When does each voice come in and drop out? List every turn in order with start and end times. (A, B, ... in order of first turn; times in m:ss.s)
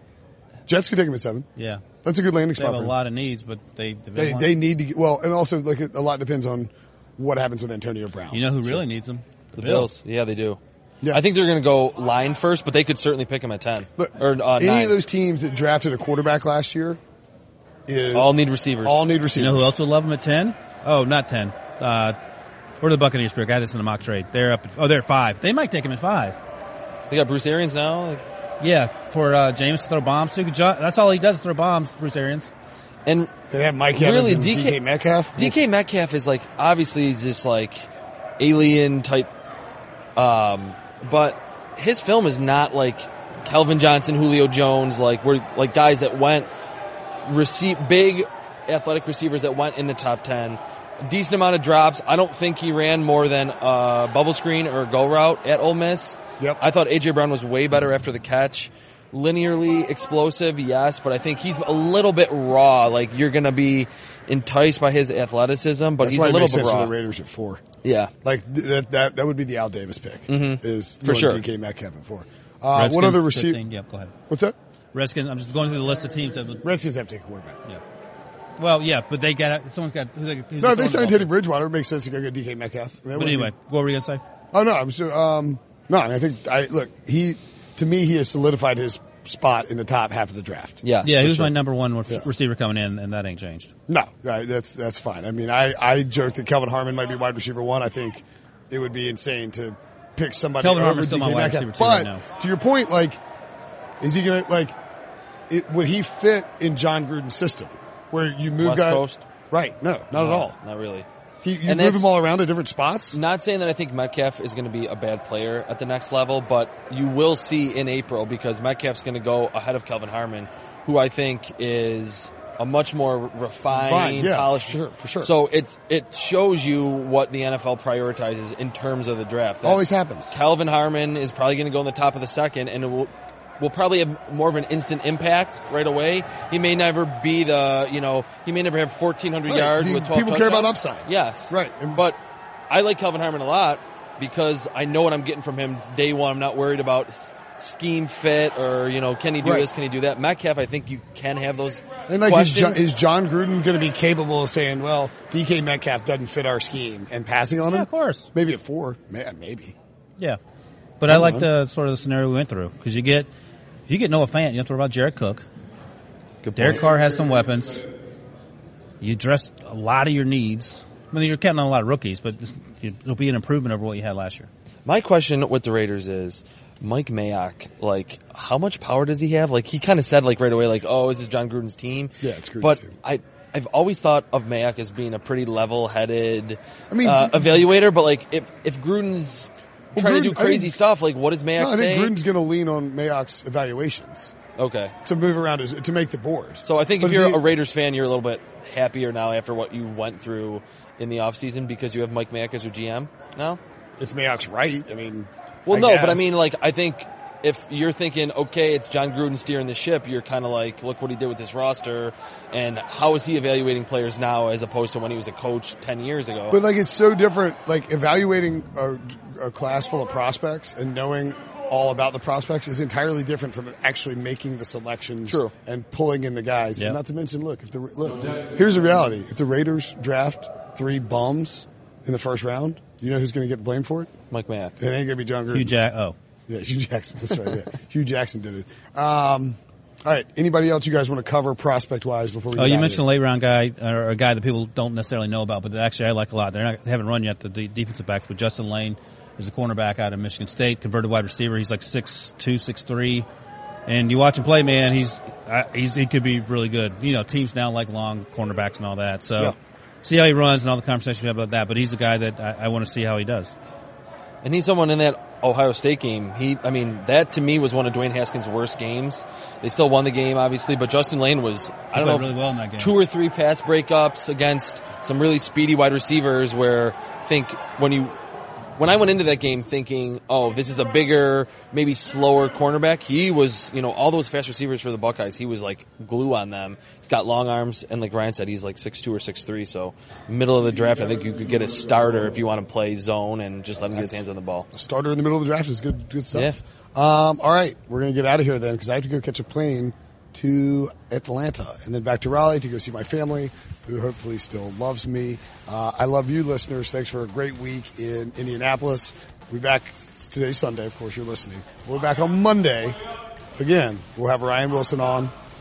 0:00.7-0:01.5 A
0:01.6-0:01.8 B
0:02.0-0:02.9 A
0:02.6-0:04.6 B
0:04.2-0:08.8 A
0:08.3-0:09.9 B
0:09.6-0:15.0 C
0:14.0-0:17.0 A
0:17.9-0:18.3 A
0:18.1-0:19.0 C
0:18.8-0:19.7 A
0:19.4-0:22.2 B
0:22.8-0:26.4 B
0:27.1-0:28.2 C
0:28.6-0:32.5 B
0:33.5-0:35.6 A
0:33.9-0:34.8 C
0:35.4-0:39.3 C
0:40.2-0:46.5 C
0:47.2-1:06.9 C
1:06.0-1:07.6 A
1:07.8-1:08.1 C
1:08.2-1:13.6 A
1:10.3-1:11.4 C
1:12.8-1:14.2 B
1:14.3-1:14.6 A
1:14.9-1:16.6 B
1:16.6-1:17.6 A
1:18.6-1:21.3 B
1:20.6-1:23.5 A
1:23.2-1:24.2 B
1:24.5-1:31.5 A
1:30.8-1:31.2 C
1:31.0-1:33.7 B
1:33.9-1:43.2 A
1:40.6-1:42.2 B
1:44.0-1:44.8 A
1:45.5-1:50.6 A
1:48.6-1:49.2 C
1:50.3-1:51.1 C
1:51.4-1:53.2 A
1:51.7-1:52.1 C
1:53.1-2:22.2 C
2:03.7-2:05.3 A
2:09.6-2:10.3 A
2:19.5-2:22.0 A
2:22.7-2:32.8 C
2:29.4-2:29.7 A
2:32.1-2:39.8 A
2:37.7-2:38.3 B
2:41.0-2:43.3 B
2:41.1-2:41.5 A
2:43.9-2:45.4 B
2:46.4-2:46.9 C
2:46.6-2:47.9 B
2:49.0-2:54.5 B
2:54.9-3:12.1 C
3:02.2-3:03.0 A
3:06.9-3:07.6 A
3:10.0-3:10.8 A
3:11.6-3:14.3 A
3:14.6-3:14.9 C
3:15.0-3:17.4 A
3:16.6-3:23.6 C
3:24.0-3:26.4 A
3:25.7-3:36.6 C
3:36.5-3:54.1 A
3:45.3-3:45.5 C
3:54.3-3:54.8 C
3:54.8-3:55.7 A
3:55.5-3:56.2 B
3:56.5-4:03.1 A
4:02.6-4:13.3 B
4:13.9-4:23.5 B
4:24.4-4:38.2 C
4:31.9-4:33.0 B
4:38.8-4:54.7 C
4:54.0-4:54.2 A
4:54.7-5:13.0 A
5:13.6-5:15.3 A